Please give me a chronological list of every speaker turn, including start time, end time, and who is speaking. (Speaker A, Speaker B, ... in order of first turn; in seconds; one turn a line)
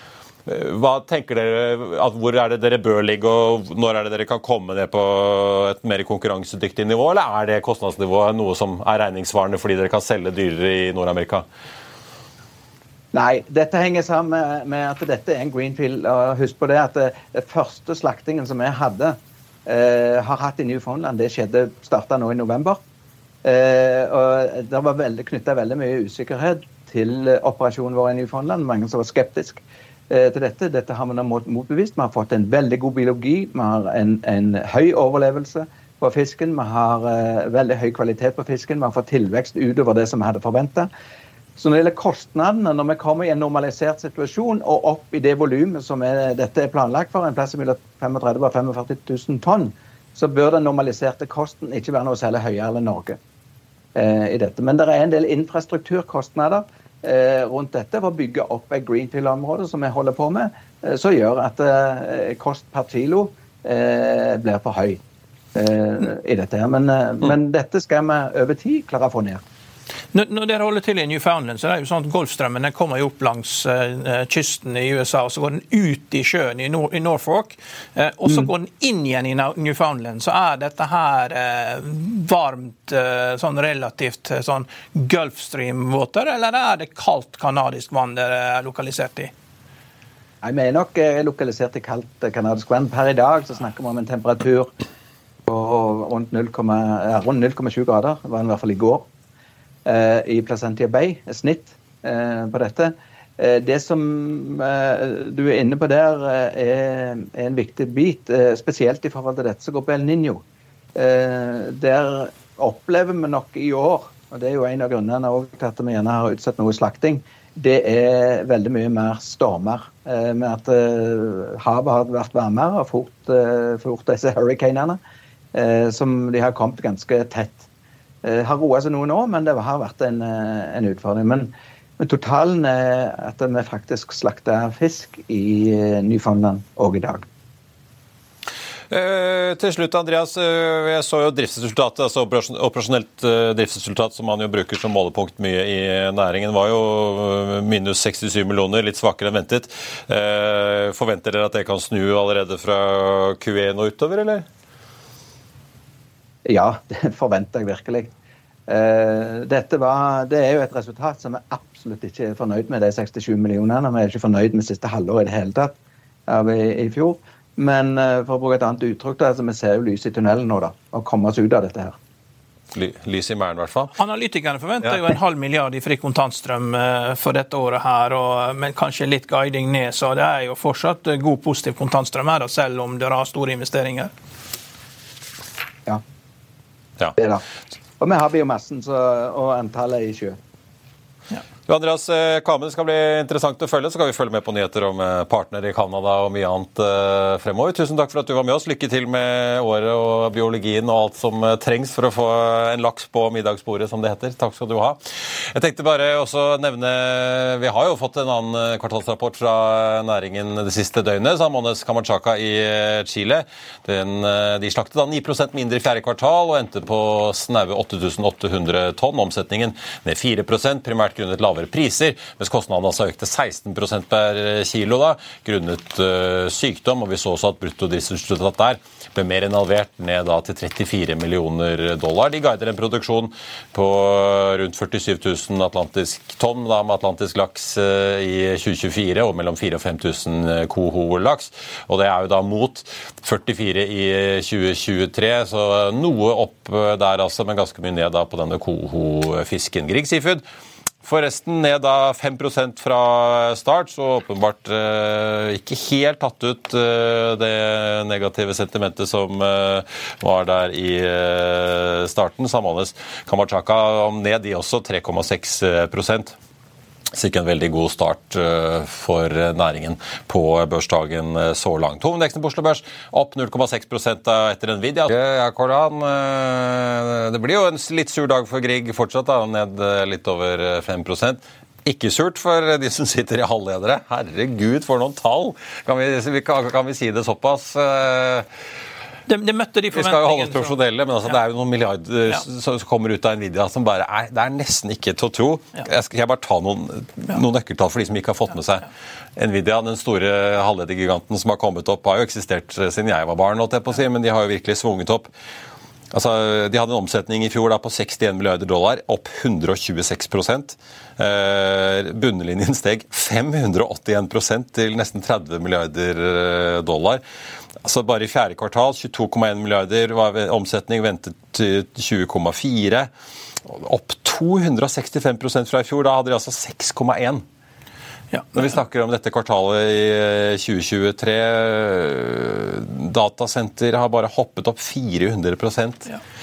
Speaker A: 0.5-11.4
Speaker B: 13.1-22.8
Speaker B: 23.4-40.9
Speaker B: 41.6-53.2
Speaker B: 54.0-65.0
Speaker B: 65.5-69.4
Speaker C: 70.1-89.3
Speaker B: 90.4-94.7
Speaker B: 95.5-99.1
Speaker B: 99.9-110.4
Speaker B: 111.0-125.0
Speaker B: 125.5-127.7
Speaker B: 128.2-137.3
Speaker A: 138.9-154.5
Speaker B: 156.4-158.1
Speaker B: 158.7-172.0
Speaker A: 172.7-173.9
Speaker C: 174.0-184.1
Speaker B: 187.2-187.4
Speaker B: 188.0-190.4
Speaker A: 191.7-205.0
Speaker A: 205.5-250.4
Speaker A: 251.0-266.4
Speaker A: 267.1-288.5
Speaker C: 289.3-290.7
Speaker A: 289.9-305.3
Speaker A: 306.1-317.2
Speaker A: 317.8-323.1
Speaker A: 323.7-327.4
Speaker C: 328.3-328.8
Speaker A: 328.6-336.1